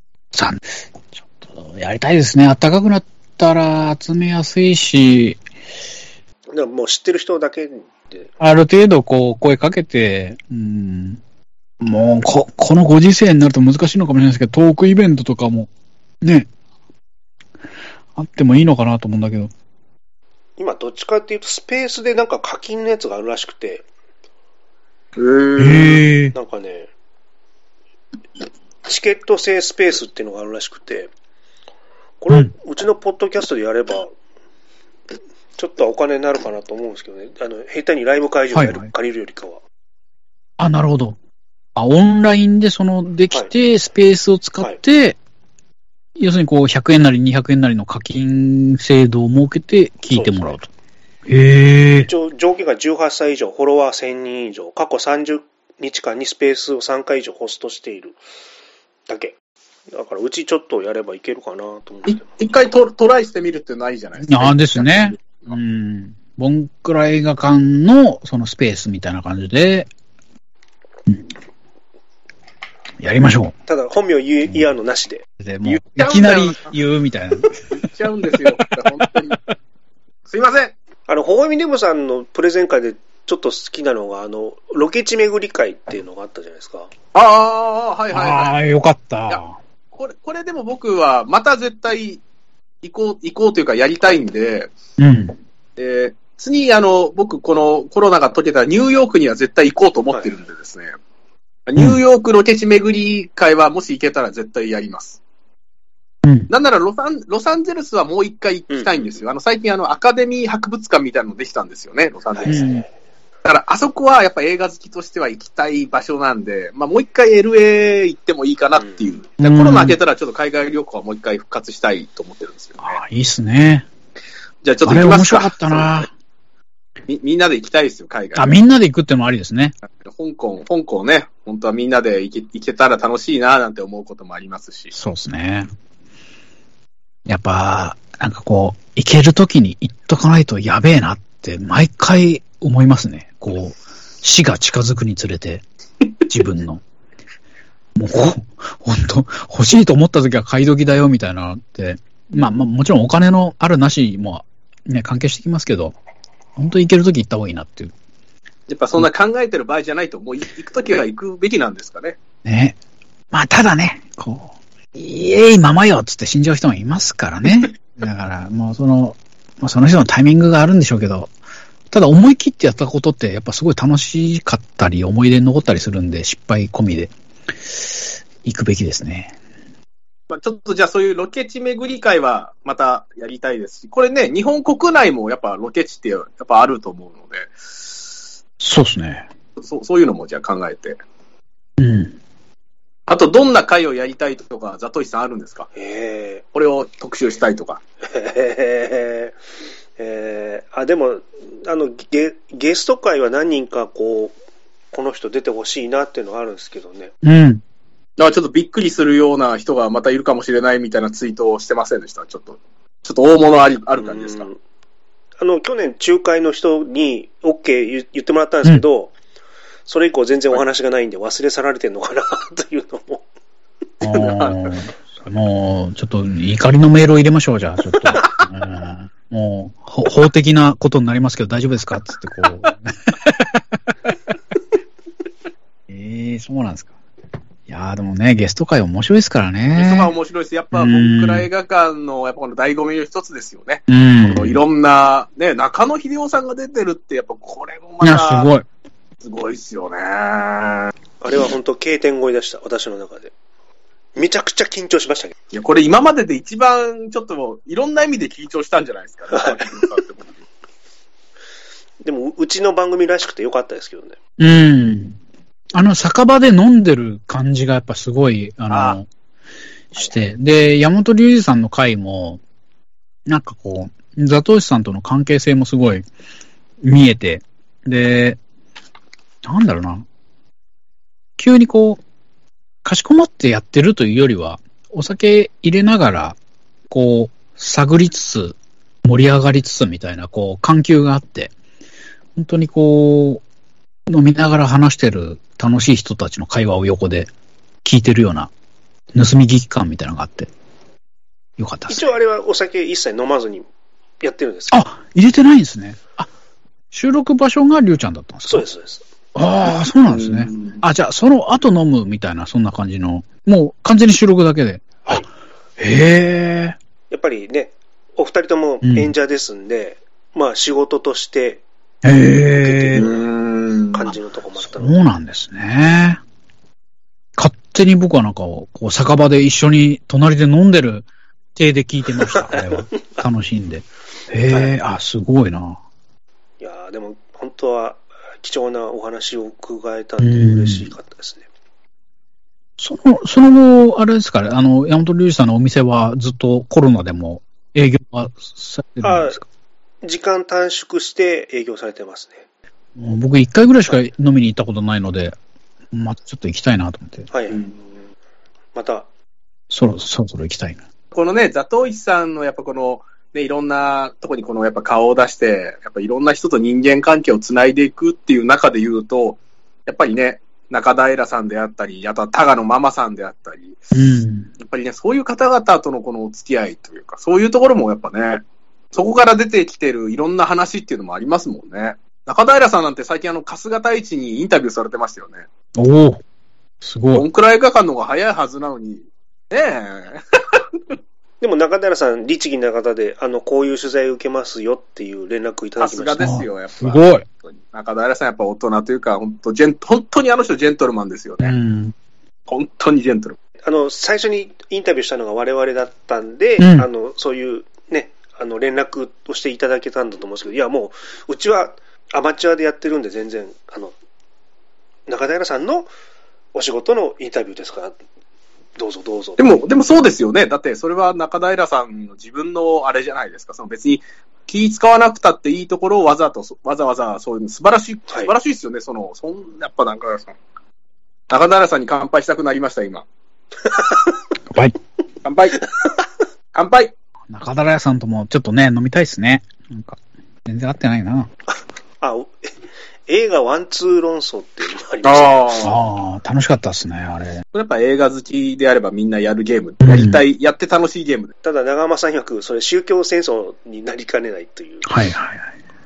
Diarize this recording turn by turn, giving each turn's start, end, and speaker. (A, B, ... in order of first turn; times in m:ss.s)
0:00.3-0:05.4 A
0:06.5-0:08.3 B
0:08.4-0:11.2 A
0:11.8-0:15.7 A
0:16.2-0:16.5 A
0:18.1-0:19.5 A
0:20.6-0:23.8 B
0:25.2-0:26.0 C
0:25.6-0:26.3 A
0:26.3-0:26.9 B
0:28.8-0:31.1 B
0:32.2-0:34.1 B
0:35.6-0:39.6 B
0:38.5-0:38.9 A
0:40.6-0:41.2 A
0:41.8-0:45.2 A
0:46.2-0:50.7 A
0:50.1-0:50.5 B
0:51.3-0:52.1 A
0:52.1-0:58.2 B
0:59.1-0:59.4 B
0:59.9-1:02.2 B
1:02.1-1:05.5 C
1:04.2-1:09.9 A
1:13.0-1:13.5 A
1:13.7-1:15.2 B
1:15.4-1:18.5 A
1:15.7-1:16.7 C
1:17.7-1:19.4 C
1:20.3-1:20.7 C
1:21.1-1:26.9 B
1:27.1-1:28.6 C
1:28.1-1:29.5 A
1:29.9-1:32.2 C
1:32.8-1:34.7 C
1:35.0-1:35.4 A
1:35.8-1:40.9 C
1:41.7-1:45.2 C
1:46.2-1:46.5 A
1:46.5-1:52.7 C
1:52.3-1:52.7 B
1:52.4-1:52.8 A
1:53.4-2:03.0 C
1:59.4-2:00.0 A
2:02.8-2:03.9 A
2:04.6-2:06.1 C
2:04.8-2:06.1 A
2:07.1-2:08.5 C
2:08.3-2:09.8 A
2:10.0-2:14.9 C
2:14.9-2:15.7 A
2:17.2-2:25.6 A
2:26.3-2:26.8 A
2:28.0-2:35.9 A
2:36.6-2:37.9 A
2:38.7-2:42.2 C
2:42.4-2:42.8 A
2:43.3-2:51.3 A
2:51.9-2:57.1 A
2:57.6-2:59.3 A
3:00.3-3:08.1 C
3:08.6-3:09.3 A
3:09.6-3:11.0 C
3:11.8-3:12.2 A
3:13.1-3:15.7 C
3:15.8-3:16.4 B
3:16.5-3:17.8 C
3:18.0-3:19.4 B
3:20.0-3:24.3 B
3:24.9-3:27.1 B
3:27.2-3:27.6 A
3:28.2-3:34.5 C
3:34.0-3:34.6 B
3:35.4-3:39.1 B
3:39.9-3:43.2 B
3:44.0-3:54.1 A
3:44.2-3:44.6 C
3:55.9-3:56.9 A
3:57.7-4:00.1 A
3:59.8-4:08.5 C
4:00.7-4:01.5 A
4:03.9-4:04.6 A
4:08.0-4:08.6 A
4:09.2-4:10.9 C
4:11.2-4:13.3 B
4:14.2-4:15.3 B
4:15.5-4:20.4 C
4:22.0-4:24.2 B
4:24.4-4:25.2 A
4:25.7-4:29.1 A
4:28.7-4:29.0 C
4:29.9-4:32.4 A
4:33.2-4:36.1 A
4:36.8-4:38.4 A
4:39.4-4:40.1 A
4:41.4-4:42.0 A
4:42.8-4:46.4 A
4:46.9-4:51.5 A
4:52.4-4:53.4 A
4:54.1-4:57.3 A
4:57.8-4:58.5 A
4:59.1-5:00.5 A
5:01.6-5:02.1 A
5:01.9-5:03.7 B
5:04.2-5:04.8 B
5:04.7-5:06.3 A
5:06.9-5:08.6 A
5:08.5-5:09.0 B
5:09.3-5:15.2 A
5:10.1-5:10.8 C
5:15.8-5:16.8 A
5:17.1-5:21.6 B
5:18.8-5:19.1 A
5:22.0-5:23.1 A
5:22.6-5:23.3 B
5:23.0-5:24.1 C
5:23.9-5:25.0 B
5:24.6-5:26.2 A
5:27.4-5:35.8 A
5:32.3-5:32.6 B
5:36.6-5:41.5 B
5:40.2-5:40.9 A
5:42.8-5:49.4 A
5:49.0-5:49.4 B
5:50.0-5:52.4 B
5:53.0-5:55.4 A
5:55.9-5:57.3 A
5:57.3-5:57.6 B
5:58.8-5:59.1 B
5:59.7-6:00.8 A
6:01.1-6:13.9 C
6:13.9-6:14.5 A
6:14.6-6:25.4 C
6:25.8-6:26.2 A
6:26.8-6:27.3 A
6:27.1-6:30.6 C
6:31.4-6:36.3 B
6:35.8-6:41.6 C
6:36.2-6:37.2 A
6:41.4-6:41.9 A
6:42.5-6:43.4 C
6:43.6-6:53.9 B
6:46.6-6:46.9 A
6:55.1-6:55.9 B
6:56.5-6:58.0 B
6:58.8-6:59.6 B
6:59.4-7:10.4 C
7:11.3-7:13.0 C
7:15.2-7:15.6 C
7:16.5-7:16.9 C
7:17.3-7:21.3 A
7:22.0-7:22.5 B
7:23.1-7:25.5 B
7:25.0-7:25.8 C
7:25.6-7:27.4 A
7:27.5-7:31.3 C
7:29.8-7:30.2 A
7:31.4-7:34.9 B
7:34.8-7:35.5 A